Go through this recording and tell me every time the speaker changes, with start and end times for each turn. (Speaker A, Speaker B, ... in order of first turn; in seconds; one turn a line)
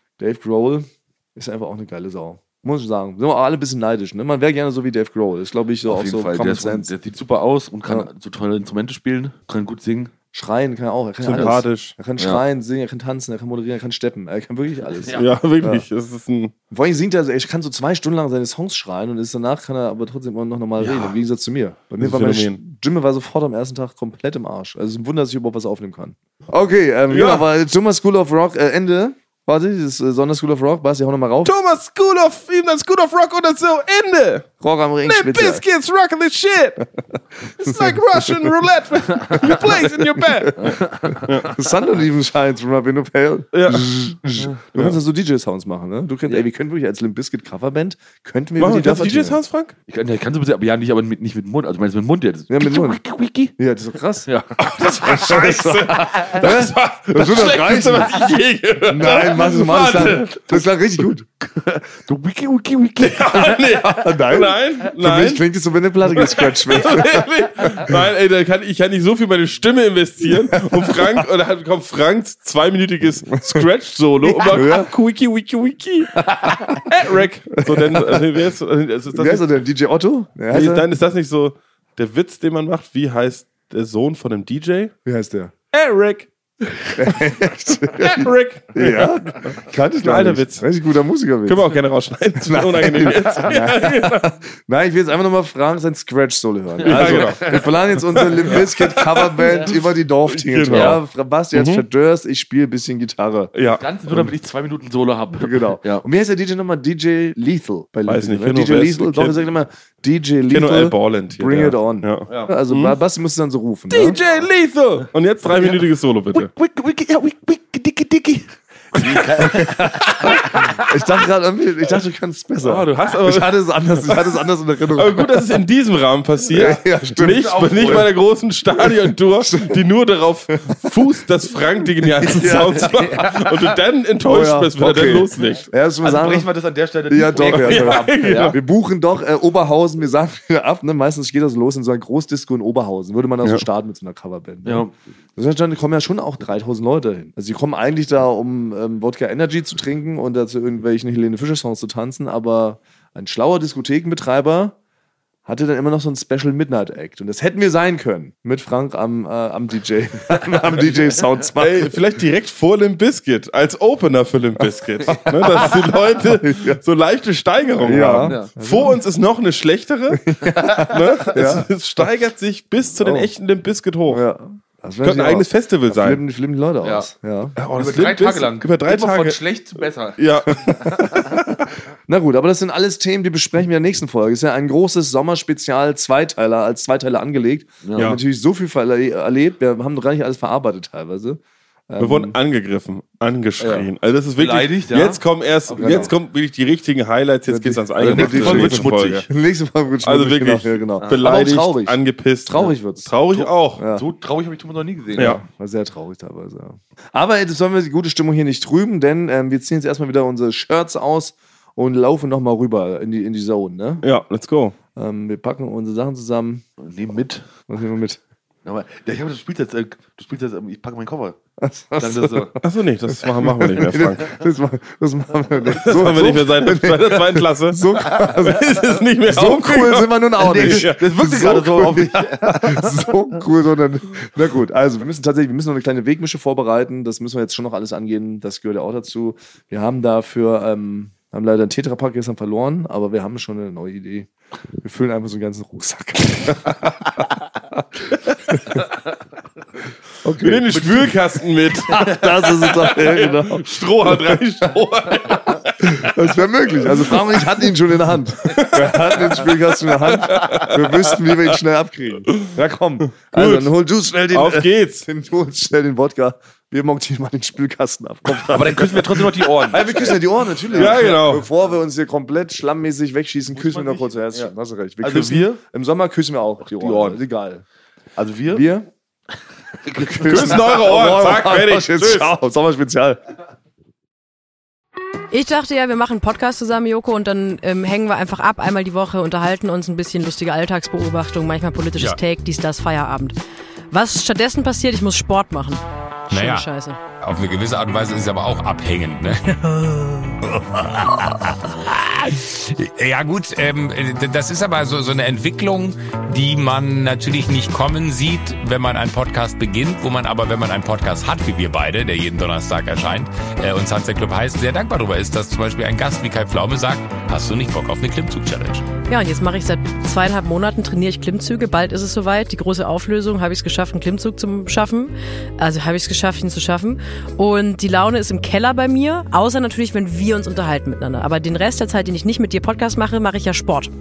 Speaker A: 0.2-6.9
Speaker B: 5.9-10.1
Speaker A: 10.3-15.8
Speaker C: 11.2-11.9
Speaker B: 14.8-15.2
Speaker C: 15.1-16.5
Speaker A: 16.7-31.5
Speaker C: 20.8-21.2
Speaker C: 22.0-22.6
Speaker C: 27.1-27.4
Speaker C: 31.4-34.5
Speaker A: 34.6-35.6
Speaker C: 35.0-36.8
Speaker A: 37.5-38.6
Speaker C: 37.5-41.5
Speaker A: 39.1-49.4
Speaker B: 40.6-41.2
Speaker C: 43.5-43.9
Speaker C: 48.6-49.7
Speaker B: 49.9-53.5
Speaker A: 52.5-53.0
Speaker A: 53.6-54.3
Speaker B: 54.3-54.6
Speaker C: 54.6-60.6
Speaker A: 55.0-58.1
Speaker B: 55.1-56.5
Speaker B: 57.9-58.4
Speaker A: 58.9-61.2
Speaker B: 61.6-63.6
Speaker C: 63.0-65.4
Speaker A: 63.7-67.9
Speaker C: 66.1-79.5
Speaker A: 70.5-71.0
Speaker A: 74.2-74.9
Speaker A: 76.2-76.9
Speaker A: 77.5-78.3
Speaker A: 79.1-80.9
Speaker C: 80.5-84.9
Speaker A: 85.0-85.5
Speaker C: 85.7-87.4
Speaker A: 87.0-91.7
Speaker C: 87.9-90.7
Speaker C: 91.5-94.3
Speaker A: 92.4-103.5
Speaker B: 96.8-98.6
Speaker C: 96.8-97.6
Speaker C: 98.1-99.4
Speaker B: 99.3-99.8
Speaker C: 100.2-101.0
Speaker B: 100.7-101.0
Speaker C: 101.5-101.8
Speaker C: 103.5-104.3
Speaker B: 103.8-106.0
Speaker A: 105.4-114.2
Speaker C: 108.1-109.4
Speaker C: 110.5-113.0
Speaker B: 112.3-112.5
Speaker C: 113.9-116.5
Speaker B: 114.2-114.4
Speaker B: 115.5-115.8
Speaker B: 116.3-120.8
Speaker A: 119.4-125.4
Speaker C: 122.6-124.3
Speaker C: 124.9-135.7
Speaker A: 126.5-128.1
Speaker B: 126.5-128.1
Speaker A: 128.8-129.8
Speaker A: 130.6-130.9
Speaker A: 132.2-133.4
Speaker B: 132.8-133.5
Speaker A: 134.2-136.5
Speaker B: 136.0-138.6
Speaker A: 137.1-154.8
Speaker C: 137.5-138.6
Speaker B: 144.6-144.9
Speaker A: 155.4-162.0
Speaker C: 161.6-174.2
Speaker B: 165.0-165.8
Speaker A: 165.1-166.8
Speaker A: 167.8-169.0
Speaker B: 168.2-168.5
Speaker A: 170.1-171.7
Speaker B: 170.5-170.8
Speaker A: 173.0-173.3
Speaker A: 174.1-177.6
Speaker C: 175.0-176.2
Speaker B: 176.8-177.1
Speaker C: 177.6-179.4
Speaker B: 177.7-181.4
Speaker C: 180.2-180.7
Speaker A: 180.5-192.3
Speaker B: 187.8-188.1
Speaker C: 192.0-199.3
Speaker B: 193.6-196.1
Speaker A: 195.8-196.1
Speaker A: 197.5-204.1
Speaker B: 198.0-199.3
Speaker C: 200.0-203.8
Speaker B: 203.9-205.4
Speaker C: 205.2-205.4
Speaker A: 205.2-214.1
Speaker C: 214.0-214.8
Speaker A: 214.9-216.6
Speaker B: 216.8-217.5
Speaker A: 217.7-218.2
Speaker B: 218.6-221.4
Speaker A: 221.6-222.6
Speaker B: 222.0-222.5
Speaker C: 222.6-224.3
Speaker A: 223.1-247.3
Speaker C: 225.8-231.6
Speaker B: 230.4-233.1
Speaker A: 248.1-248.9
Speaker A: 250.2-251.2
Speaker C: 250.3-256.2
Speaker A: 251.7-254.6
Speaker B: 253.1-253.8
Speaker A: 255.3-277.6
Speaker C: 256.8-257.7
Speaker C: 258.4-261.6
Speaker C: 263.3-263.7
Speaker C: 264.3-265.1
Speaker B: 268.4-271.2
Speaker C: 270.7-271.5
Speaker B: 273.5-275.6
Speaker B: 276.6-277.2
Speaker B: 278.1-278.6
Speaker A: 278.5-278.9
Speaker B: 279.8-280.8
Speaker A: 279.9-283.2
Speaker C: 280.2-282.3
Speaker D: 285.3-293.3
Speaker D: 293.9-297.0
Speaker E: 296.3-296.7
Speaker E: 297.2-318.8
Speaker D: 319.0-333.9